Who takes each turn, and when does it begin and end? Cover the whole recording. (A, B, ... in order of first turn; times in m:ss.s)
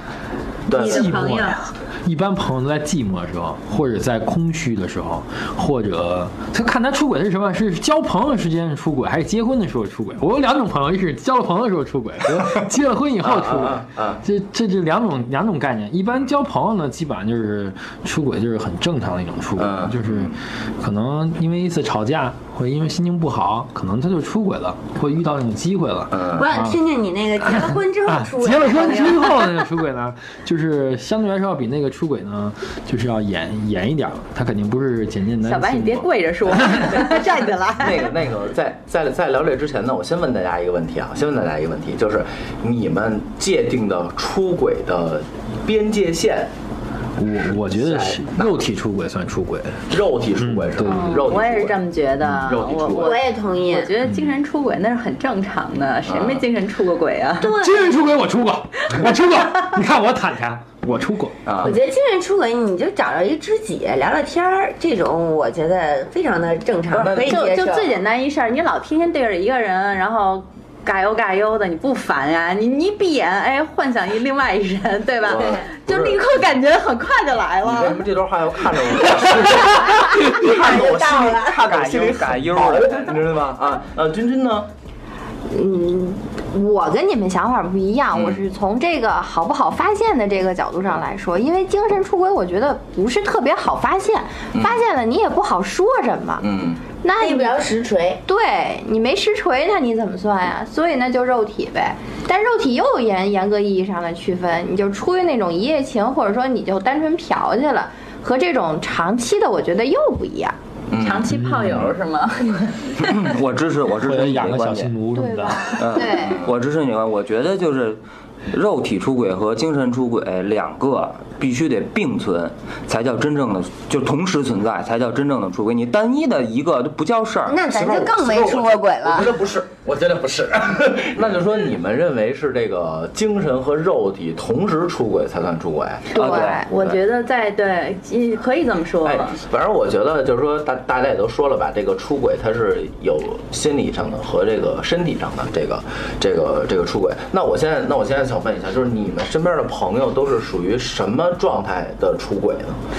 0:00.7-0:01.2 A
0:00.7-0:01.7 B
0:00.8-0:26.8 C
0:13.2-0:14.2 A
0:19.6-0:20.2 A
0:26.1-0:26.5 A
0:26.3-0:29.6 B
0:27.5-0:36.0 C
0:35.4-0:38.1 D
0:36.7-0:37.1 C
0:37.8-0:46.5 A
0:47.2-0:49.8 C
0:47.4-0:48.6 A
0:49.9-0:53.2 A
0:50.4-0:51.0 C
0:50.8-0:57.6 D
0:53.0-0:53.9 B
0:56.1-0:56.4 A
0:57.4-0:58.0 B
0:57.5-1:01.4 C
0:59.0-0:59.5 D
1:01.4-1:01.8 A
1:01.6-1:08.0 B
1:06.9-1:07.4 A
1:06.9-1:18.0 D
1:15.2-1:16.3 A
1:15.3-1:15.6 B
1:17.6-1:24.7 A
1:19.6-1:20.2 D
1:20.3-1:21.4 B
1:21.5-1:23.2 E
1:25.5-1:36.4 F
1:28.1-1:28.4 A
1:34.5-1:34.8 A
1:36.4-1:36.8 A
1:37.0-1:37.6 F
1:37.2-1:38.2 B
1:38.3-1:50.6 F
1:50.9-1:51.3 A
1:51.0-1:53.3 D
1:51.3-1:51.9 C
1:53.1-1:54.9 E
1:54.0-1:56.0 C
1:55.1-1:56.4 F
1:55.8-2:07.6 E
2:07.4-2:09.4 B
2:07.7-2:16.2 A
2:16.1-2:17.0 E
2:16.1-2:16.7 F
2:16.1-2:19.4 D
2:19.0-2:32.8 A